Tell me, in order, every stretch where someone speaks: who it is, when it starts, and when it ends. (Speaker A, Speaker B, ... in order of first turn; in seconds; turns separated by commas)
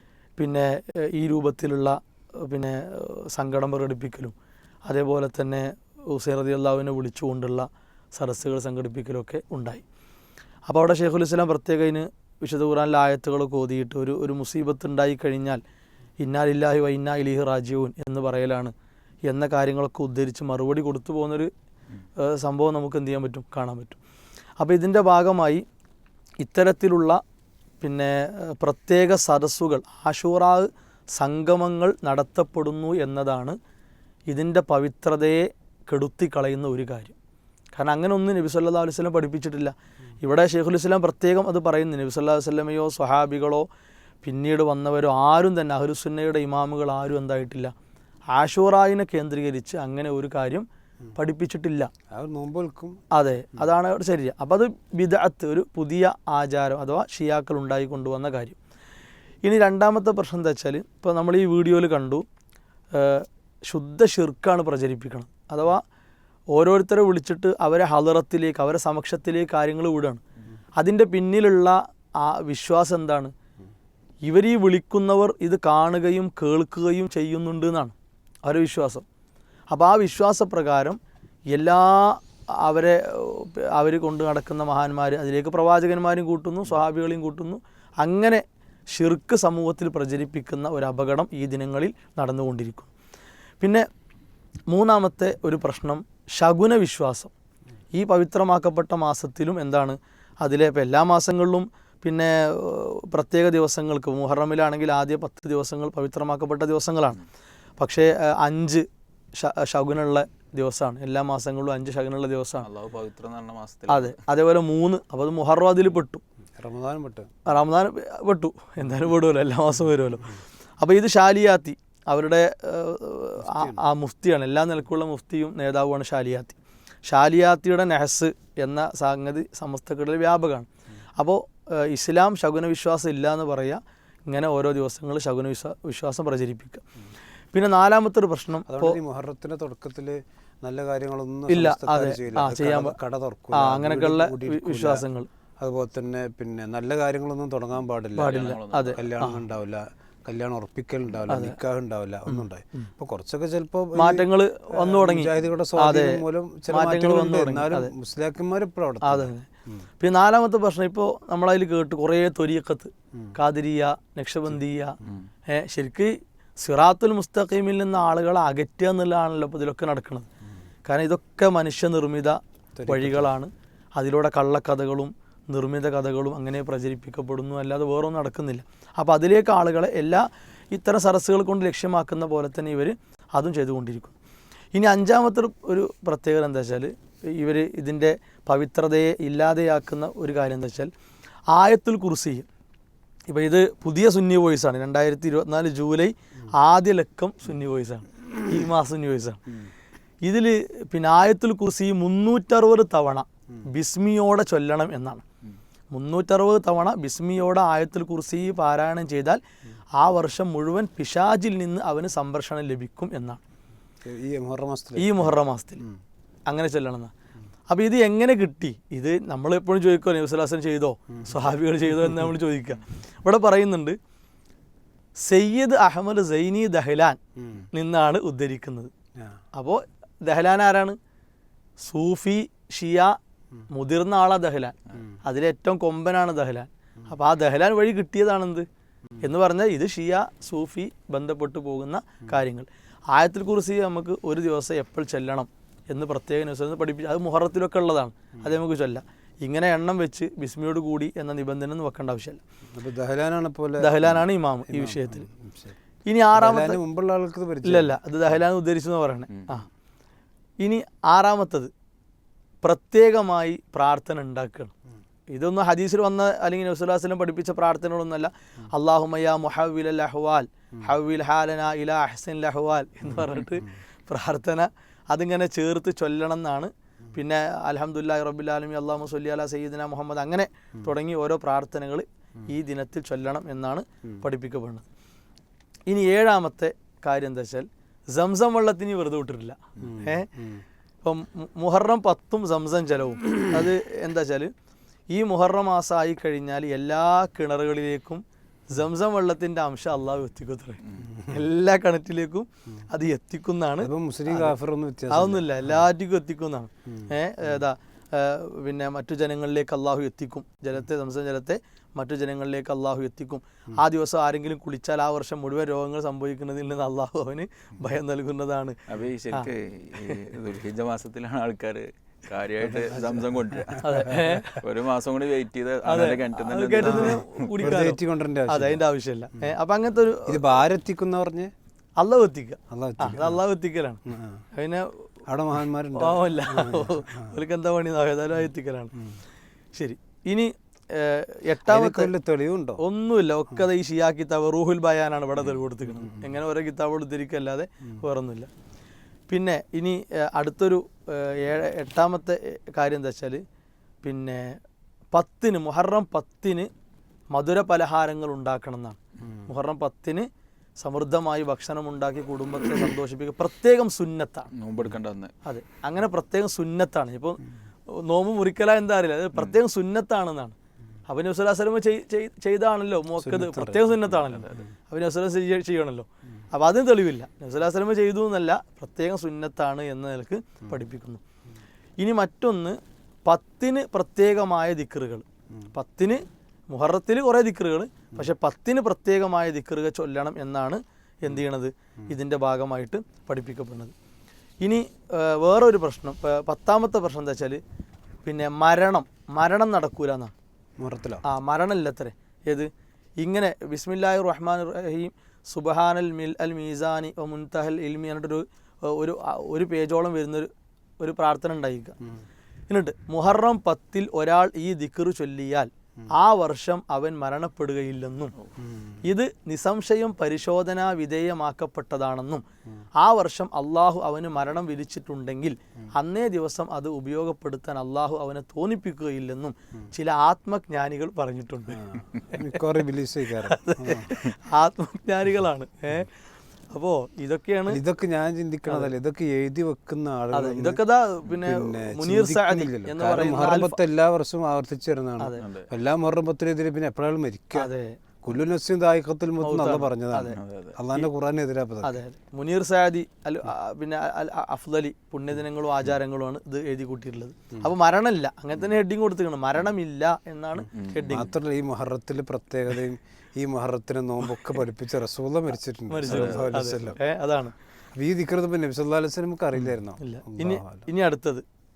Speaker A: 0.4-4.3, Speaker A: 4.9-9.8, Speaker A: 10.7-15.6, Speaker A: 16.2-18.7, Speaker A: 19.3-21.5, Speaker A: 22.2-24.0, Speaker A: 24.6-25.6, Speaker A: 26.4-27.2, Speaker A: 27.8-33.6, Speaker A: 34.3-37.1, Speaker A: 37.7-43.6, Speaker A: 44.2-47.7, Speaker A: 48.3-51.9, Speaker B: 52.1-53.0, Speaker A: 53.1-58.6, Speaker A: 59.4-62.2, Speaker A: 62.9-65.8, Speaker A: 66.5-70.2, Speaker A: 70.8-73.3, Speaker A: 74.2-79.0, Speaker A: 79.7-81.0, Speaker A: 81.5-92.9, Speaker A: 93.6-93.9, Speaker A: 94.7-97.3, Speaker A: 97.9-107.2, Speaker A: 107.8-112.6, Speaker C: 112.6-114.2, Speaker A: 113.9-116.2, Speaker B: 116.6-117.3, Speaker A: 117.5-136.8, Speaker B: 123.4-123.8, Speaker A: 137.5-139.0, Speaker B: 138.7-145.0, Speaker A: 141.5-143.0, Speaker A: 143.5-145.3, Speaker B: 145.6-159.8, Speaker A: 148.2-149.4, Speaker C: 148.2-149.1, Speaker A: 151.3-151.6, Speaker A: 152.3-152.9, Speaker A: 153.9-157.9, Speaker A: 159.0-159.5, Speaker A: 160.0-164.9, Speaker A: 165.5-170.3, Speaker A: 170.8-184.2, Speaker B: 172.8-173.3, Speaker A: 184.7-190.9, Speaker A: 191.5-192.4, Speaker A: 193.3-199.4, Speaker A: 200.2-205.2, Speaker A: 205.9-209.4, Speaker A: 210.0-213.4, Speaker B: 214.0-216.0, Speaker A: 215.0-215.8, Speaker A: 216.5-217.1, Speaker A: 217.7-224.0, Speaker A: 225.2-227.2, Speaker B: 227.3-227.7, Speaker A: 227.7-228.9, Speaker A: 229.5-231.0, Speaker A: 231.8-233.2, Speaker A: 233.7-238.7, Speaker A: 239.2-252.4, Speaker B: 252.7-255.8, Speaker A: 253.8-255.3, Speaker A: 256.1-256.8, Speaker B: 256.3-258.0, Speaker A: 257.6-259.7, Speaker A: 260.6-261.7, Speaker A: 262.6-264.7, Speaker A: 265.3-284.8, Speaker A: 285.9-290.3, Speaker B: 289.8-290.6, Speaker A: 291.0-294.5, Speaker A: 295.1-304.5, Speaker B: 301.1-301.4, Speaker B: 303.8-305.8, Speaker A: 305.1-318.8, Speaker B: 306.9-307.6, Speaker C: 318.9-327.7, Speaker B: 322.6-324.4, Speaker A: 323.8-324.6, Speaker A: 325.9-330.4, Speaker B: 326.8-328.8, Speaker B: 330.3-331.5, Speaker A: 332.0-334.0, Speaker B: 332.7-333.4, Speaker B: 334.1-334.4, Speaker A: 334.5-335.0, Speaker B: 335.3-337.3, Speaker A: 335.9-338.9, Speaker A: 339.8-342.1, Speaker B: 341.6-342.8, Speaker A: 342.8-348.5, Speaker B: 345.9-346.3, Speaker A: 349.3-353.4, Speaker A: 354.0-354.6, Speaker A: 355.1-356.7, Speaker A: 357.3-364.5, Speaker B: 359.2-359.5, Speaker C: 364.5-365.3, Speaker A: 365.4-370.6, Speaker A: 371.1-381.2, Speaker B: 373.2-374.6, Speaker C: 374.3-374.6, Speaker A: 382.0-393.9, Speaker A: 394.6-397.6, Speaker A: 398.2-400.3, Speaker B: 400.8-401.2, Speaker A: 401.2-411.9, Speaker A: 412.7-418.3, Speaker B: 418.6-419.0, Speaker A: 419.0-422.4, Speaker A: 423.0-431.8, Speaker B: 431.7-434.1, Speaker A: 433.4-436.1, Speaker A: 436.7-437.8, Speaker B: 437.7-440.8, Speaker A: 440.3-443.8, Speaker B: 441.4-447.7, Speaker C: 445.4-445.7, Speaker A: 447.6-448.0, Speaker B: 448.2-452.0, Speaker A: 449.4-450.4, Speaker C: 450.3-450.8, Speaker A: 451.8-461.3, Speaker C: 460.7-461.2, Speaker B: 461.1-467.0, Speaker A: 465.9-467.5, Speaker C: 466.1-466.4, Speaker B: 467.9-470.9, Speaker A: 470.0-471.4